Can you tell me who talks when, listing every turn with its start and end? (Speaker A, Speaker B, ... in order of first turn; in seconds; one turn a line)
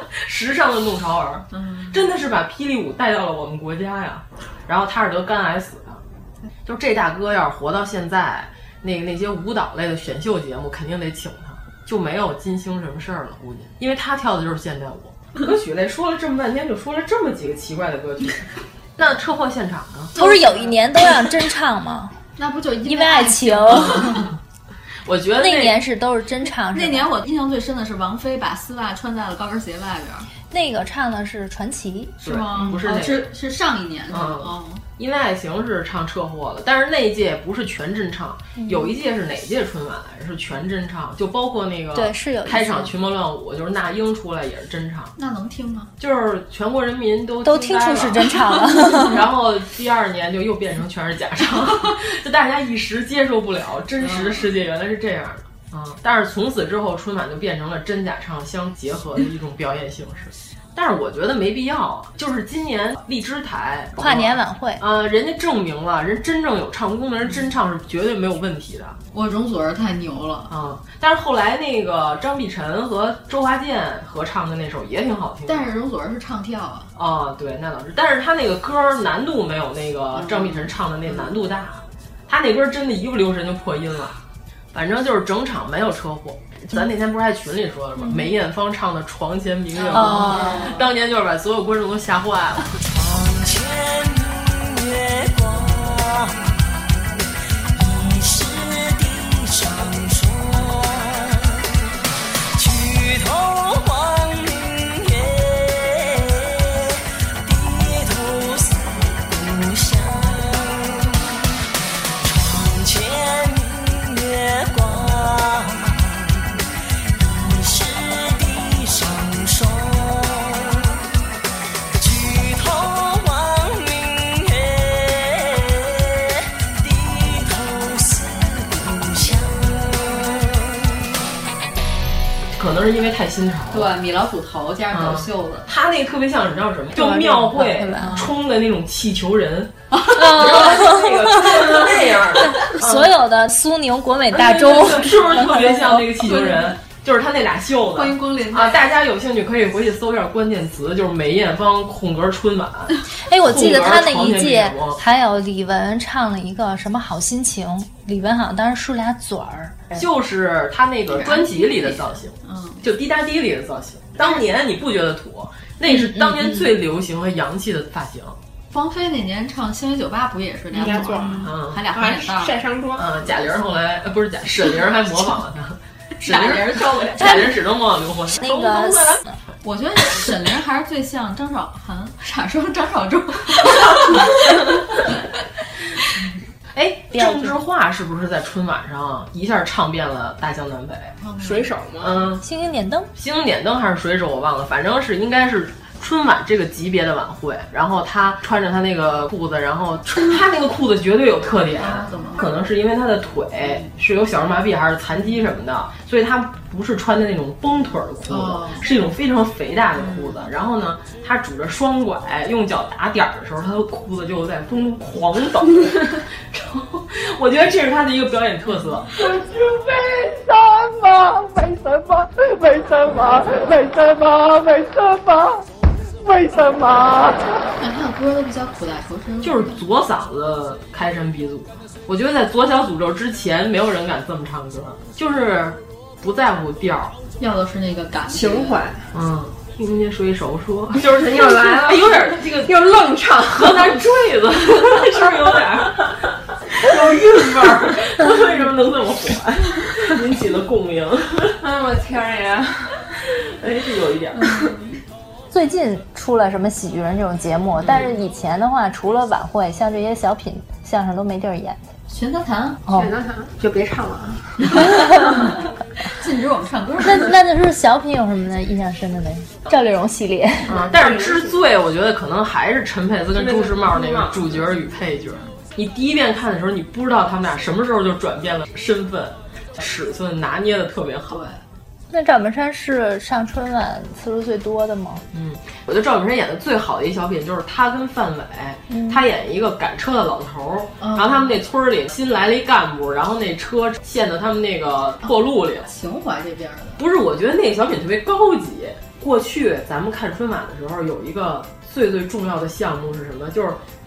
Speaker A: 0.2-6.0
Speaker A: 6.7-20.1
Speaker B: 20.1-20.7
Speaker C: 20.1-22.1
Speaker B: 22.4-24.3
Speaker C: 22.9-24.1
Speaker A: 23.9-24.3
Speaker A: 25.1-25.8
Speaker C: 25.4-27.1
Speaker B: 26.7-30.3
Speaker C: 30.5-32.8
Speaker A: 32.2-33.3
Speaker B: 32.2-34.8
Speaker A: 34.1-45.1
Speaker C: 38.6-38.9
Speaker C: 42.0-42.9
Speaker B: 45.2-45.9
Speaker A: 46.0-69.0
Speaker C: 47.4-49.2
Speaker B: 54.0-54.5
Speaker C: 64.0-64.8
Speaker B: 69.1-70.5
Speaker A: 70.5-75.7
Speaker B: 75.5-76.9
Speaker A: 77.0-84.2
Speaker B: 80.1-81.4
Speaker A: 84.7-92.8
Speaker B: 89.7-90.8
Speaker C: 90.0-90.6
Speaker D: 92.9-96.8
Speaker D: 97.7-101.7
Speaker D: 102.6-111.5
Speaker D: 112.2-116.6
Speaker D: 117.2-121.0
Speaker D: 121.9-130.8
Speaker A: 132.5-133.9
Speaker B: 133.7-135.7
Speaker A: 134.9-143.1
Speaker C: 136.9-138.2
Speaker C: 140.1-141.9
Speaker C: 142.4-146.1
Speaker A: 144.3-155.0
Speaker B: 146.2-146.8
Speaker B: 147.9-148.8
Speaker C: 153.2-159.9
Speaker A: 159.9-168.4
Speaker B: 161.1-162.8
Speaker C: 165.9-166.7
Speaker B: 168.7-172.7
Speaker E: 170.7-173.4
Speaker A: 171.4-171.8
Speaker A: 172.9-179.2
Speaker B: 176.2-177.5
Speaker C: 178.4-179.4
Speaker B: 179.6-184.5
Speaker A: 186.8-191.1
Speaker C: 187.1-187.6
Speaker B: 191.2-191.7
Speaker E: 191.4-192.3
Speaker A: 192.0-192.4
Speaker C: 192.4-193.1
Speaker A: 193.2-219.2
Speaker B: 201.8-202.5
Speaker B: 208.3-208.9
Speaker B: 210.0-210.4
Speaker B: 227.8-229.8
Speaker A: 229.4-237.2
Speaker B: 237.4-238.8
Speaker E: 238.3-239.1
Speaker A: 239.1-242.9
Speaker E: 241.0-243.9
Speaker A: 243.5-251.6
Speaker E: 251.6-253.0
Speaker A: 253.6-254.7
Speaker C: 255.5-261.8
Speaker A: 257.8-258.1
Speaker B: 262.1-262.8
Speaker E: 262.9-265.1
Speaker C: 265.0-265.4
Speaker B: 266.2-267.3
Speaker C: 267.0-270.7
Speaker A: 270.7-281.4
Speaker E: 270.7-271.6
Speaker E: 273.3-274.6
Speaker B: 281.3-281.6
Speaker C: 282.1-285.2
Speaker A: 285.3-295.9
Speaker C: 288.9-289.2
Speaker B: 291.0-291.6
Speaker B: 295.9-297.0
Speaker A: 297.0-303.8